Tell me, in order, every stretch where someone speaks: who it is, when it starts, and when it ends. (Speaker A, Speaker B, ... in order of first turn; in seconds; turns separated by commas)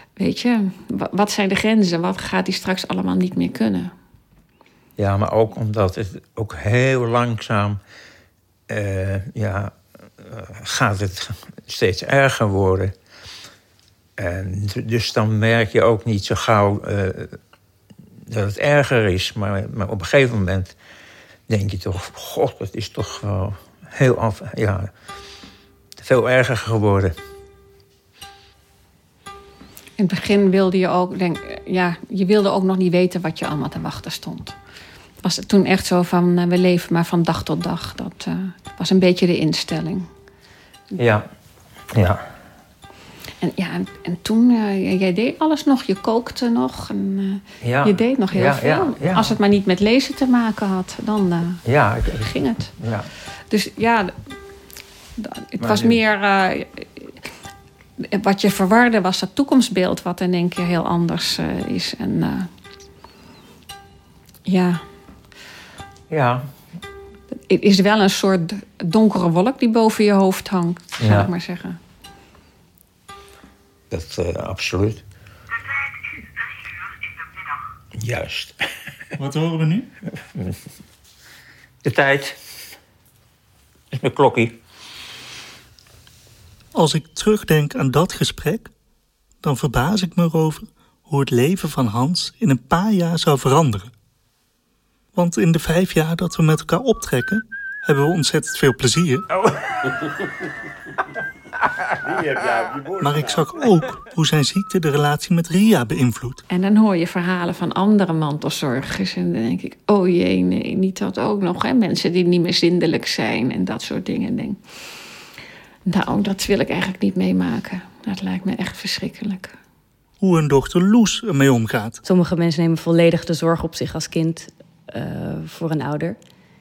Speaker A: 0.2-3.9, Speaker B: 5.0-7.8, Speaker B: 8.7-12.9, Speaker B: 14.2-17.4, Speaker B: 18.3-20.7, Speaker B: 21.5-24.9, Speaker B: 26.0-27.1, Speaker A: 30.0-34.5, Speaker A: 35.2-40.1, Speaker B: 41.0-41.2, Speaker B: 41.9-42.2, Speaker A: 43.4-52.7, Speaker B: 47.6-49.3, Speaker B: 51.6-53.1, Speaker A: 53.5-54.1, Speaker A: 55.2-57.1, Speaker B: 55.6-56.0, Speaker A: 58.1-62.5, Speaker A: 64.5-64.8, Speaker B: 66.1-66.4, Speaker A: 67.3-71.8, Speaker B: 71.0-71.3, Speaker B: 73.9-75.0, Speaker B: 78.0-78.6, Speaker C: 79.2-79.9, Speaker B: 81.8-82.4, Speaker B: 83.9-84.5, Speaker C: 86.7-88.7, Speaker C: 89.4-93.9, Speaker C: 95.1-99.3, Speaker B: 99.4-100.1, Speaker B: 102.1-102.9, Speaker C: 103.0-106.4, Speaker A: 106.5-114.6, Speaker A: 115.9-119.5, Speaker C: 120.2-122.0, Speaker D: 122.0-126.2